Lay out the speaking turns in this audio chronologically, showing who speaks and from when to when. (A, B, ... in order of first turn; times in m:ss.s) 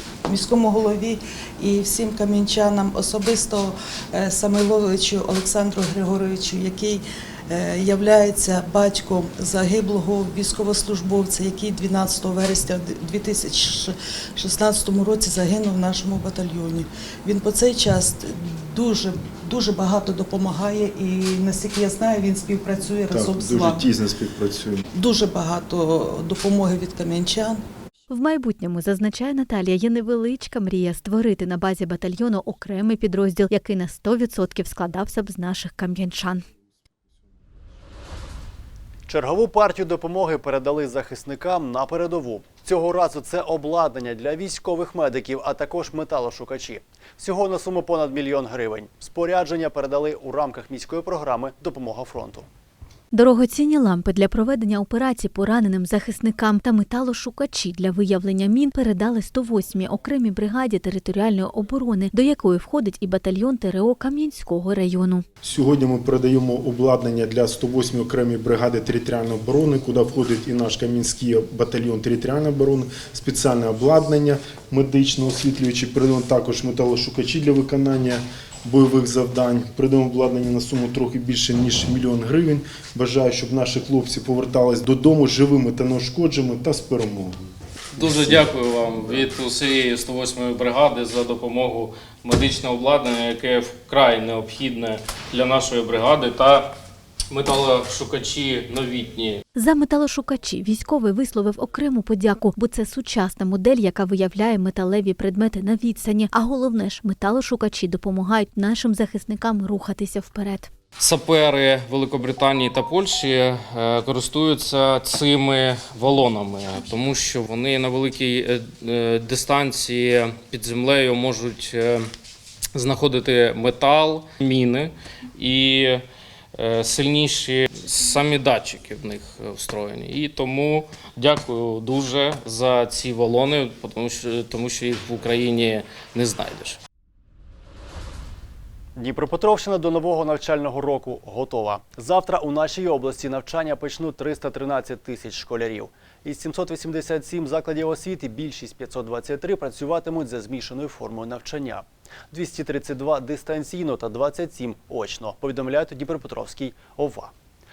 0:00.3-0:23.8 A
0:23.1-0:24.8 B
0:24.9-0:27.6 A
0:28.1-0:36.4 C
0:39.1-0:52.5 D
0:53.1-1:05.2 C
1:05.4-1:27.4 B
1:28.0-1:36.7 E
1:28.0-1:28.4 B
1:37.3-1:39.4 E
1:39.5-1:50.7 C
1:51.0-2:02.0 E
2:02.7-2:06.0 E
2:06.6-2:16.8 E
2:19.0-2:37.3 D